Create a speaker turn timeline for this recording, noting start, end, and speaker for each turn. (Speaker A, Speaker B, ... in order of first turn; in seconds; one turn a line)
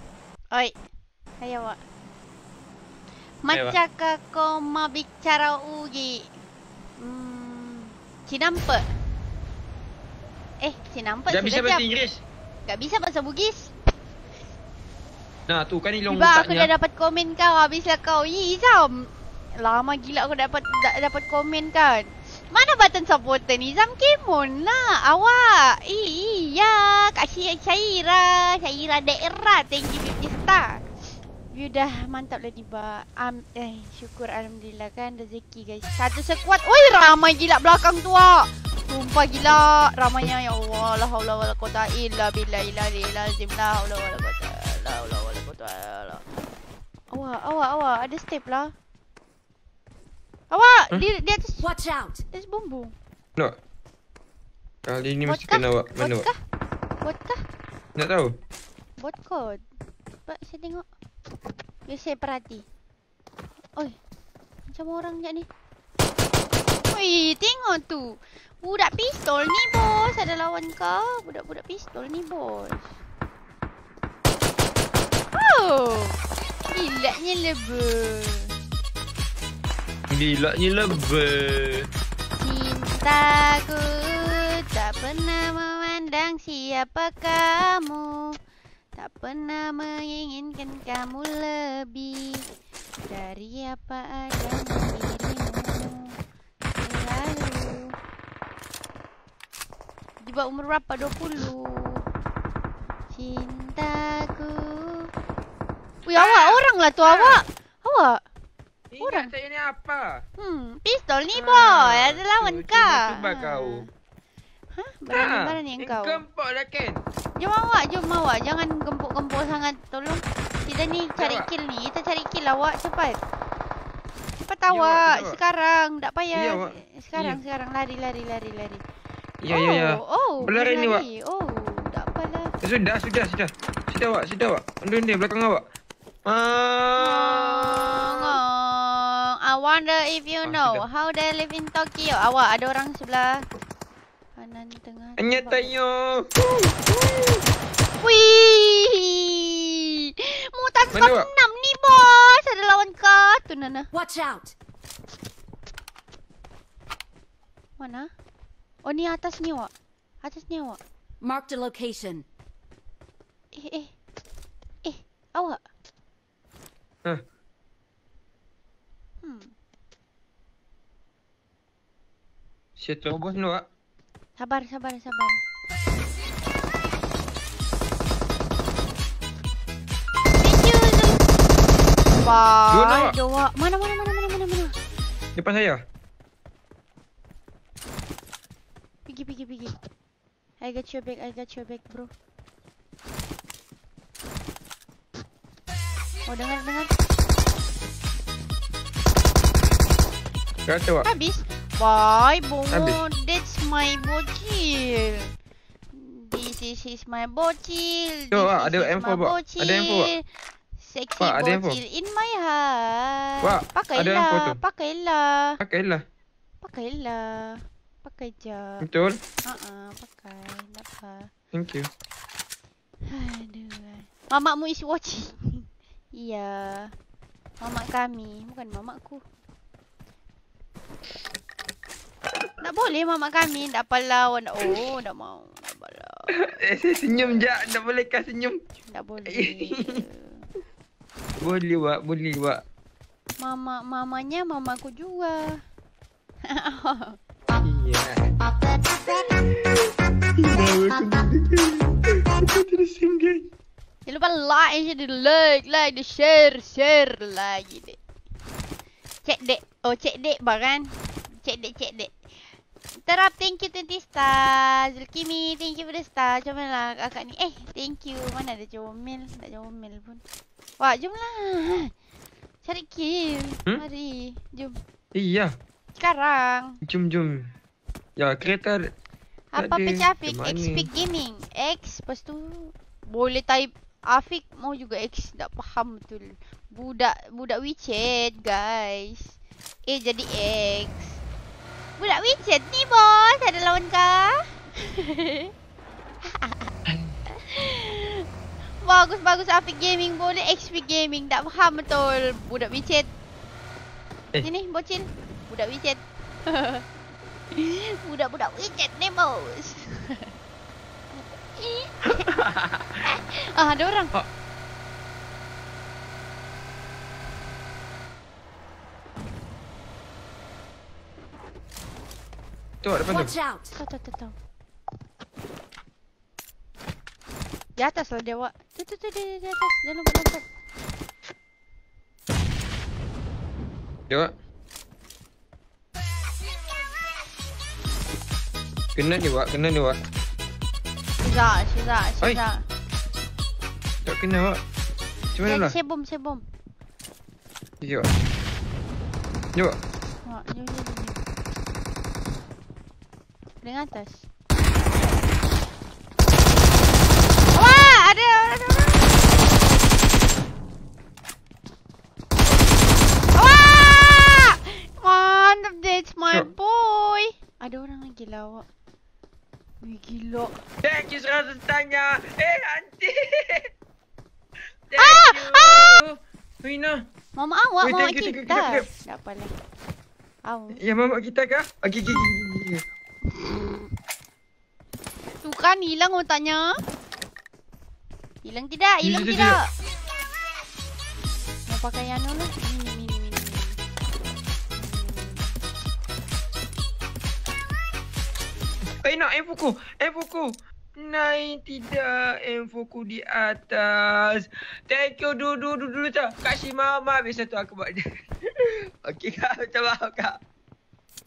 Speaker A: 1.4-1.8
Speaker A: 3.4-6.3
Speaker B: 3.5-3.8
Speaker A: 7.0-8.8
Speaker A: 10.6-11.8
Speaker B: 11.3-12.2
Speaker A: 12.7-13.7
Speaker B: 15.5-16.7
Speaker A: 16.1-46.2
Speaker A: 47.1-48.7
Speaker A: 50.5-51.7
Speaker C: 51.6-52.2
Speaker A: 52.3-52.9
Speaker B: 54.9-56.3
Speaker A: 55.2-56.4
Speaker A: 57.0-57.4
Speaker B: 58.0-58.4
Speaker A: 59.0-59.6
Speaker A: 60.3-60.8
Speaker A: 61.9-62.6
Speaker A: 64.7-65.5
Speaker A: 66.9-72.9
Speaker A: 75.3-76.2
Speaker A: 76.7-78.5
Speaker B: 80.1-81.9
Speaker A: 82.4-88.2
Speaker A: 89.0-92.4
Speaker A: 93.1-96.1
Speaker A: 96.8-97.9
Speaker A: 100.2-102.0
Speaker A: 103.1-105.1
Speaker A: 106.1-108.2
Speaker B: 106.1-107.5
Speaker B: 108.9-110.2
Speaker A: 109.0-109.3
Speaker A: 110.4-113.8
Speaker B: 111.3-113.8
Speaker A: 114.7-116.2
Speaker B: 115.1-117.0
Speaker A: 117.4-123.2
Speaker B: 121.2-121.5
Speaker A: 124.4-128.8
Speaker B: 124.7-125.4
Speaker B: 126.3-127.4
Speaker B: 129.4-131.0
Speaker A: 129.5-132.5
Speaker B: 132.6-135.6
Speaker B: 136.2-138.3
Speaker A: 137.0-143.4
Speaker B: 140.4-140.8
Speaker A: 144.3-145.7
Speaker B: 145.2-147.4
Speaker A: 148.0-153.9
Speaker B: 150.9-151.3
Speaker C: 153.9-154.5
Speaker A: 157.8-158.1
Speaker A: 158.8-159.7
Speaker A: 160.2-160.8
Speaker C: 161.2-162.2
Speaker A: 163.5-163.9
Speaker A: 164.8-165.6
Speaker A: 169.2-169.5
Speaker B: 172.8-173.7
Speaker A: 174.4-175.4
Speaker A: 180.4-181.2
Speaker A: 182.1-184.7
Speaker B: 182.7-183.2
Speaker B: 185.3-185.8
Speaker A: 189.1-189.7
Speaker A: 190.6-192.1
Speaker A: 196.3-196.9
Speaker B: 200.7-201.1
Speaker A: 201.0-205.3
Speaker B: 202.7-203.0
Speaker A: 205.9-210.2
Speaker B: 208.3-210.1
Speaker A: 210.8-215.6
Speaker B: 211.2-211.8
Speaker B: 213.4-214.6
Speaker B: 215.6-216.0
Speaker A: 216.6-218.8
Speaker B: 218.8-219.2
Speaker A: 219.4-221.3
Speaker B: 221.5-221.9
Speaker A: 223.1-226.9
Speaker A: 227.6-229.2
Speaker A: 232.6-236.5
Speaker B: 236.4-238.6
Speaker A: 237.1-237.5
Speaker A: 238.9-240.5
Speaker B: 239.3-240.0
Speaker B: 241.4-242.6
Speaker A: 243.4-245.4
Speaker A: 246.5-247.2
Speaker B: 247.6-248.3
Speaker B: 249.1-253.5
Speaker A: 254.1-258.0
Speaker A: 259.2-262.2
Speaker A: 263.0-270.2
Speaker A: 270.8-271.9
Speaker A: 272.6-274.8
Speaker B: 275.1-275.6
Speaker A: 276.0-276.8
Speaker B: 276.8-277.5
Speaker B: 278.2-278.9
Speaker A: 279.5-289.3
Speaker B: 279.6-280.9
Speaker A: 289.9-291.2
Speaker A: 292.0-295.5
Speaker A: 296.2-296.7
Speaker B: 296.9-297.2
Speaker A: 297.3-298.2
Speaker A: 298.8-303.1
Speaker A: 304.4-306.8
Speaker A: 307.5-310.3
Speaker A: 311.1-312.3
Speaker B: 312.2-312.9
Speaker A: 313.0-314.1
Speaker B: 322.8-323.3
Speaker C: 323.1-323.7
Speaker A: 323.7-324.3
Speaker A: 327.8-330.4
Speaker B: 338.9-340.0
Speaker A: 341.2-342.6
Speaker B: 344.0-344.6
Speaker B: 345.3-345.8
Speaker A: 345.4-346.4
Speaker B: 347.8-348.1
Speaker A: 350.2-351.2
Speaker A: 353.6-354.3
Speaker A: 357.5-359.2
Speaker A: 363.4-368.6
Speaker A: 369.8-370.6
Speaker B: 370.8-373.7
Speaker B: 374.9-377.0
Speaker A: 374.9-376.0
Speaker A: 377.4-379.5
Speaker B: 377.8-378.9
Speaker A: 380.4-380.8
Speaker B: 380.8-382.8
Speaker A: 383.3-383.9
Speaker A: 385.4-386.7
Speaker A: 388.4-389.6
Speaker B: 389.0-389.6
Speaker A: 391.7-393.8
Speaker A: 394.8-395.6
Speaker B: 399.0-410.4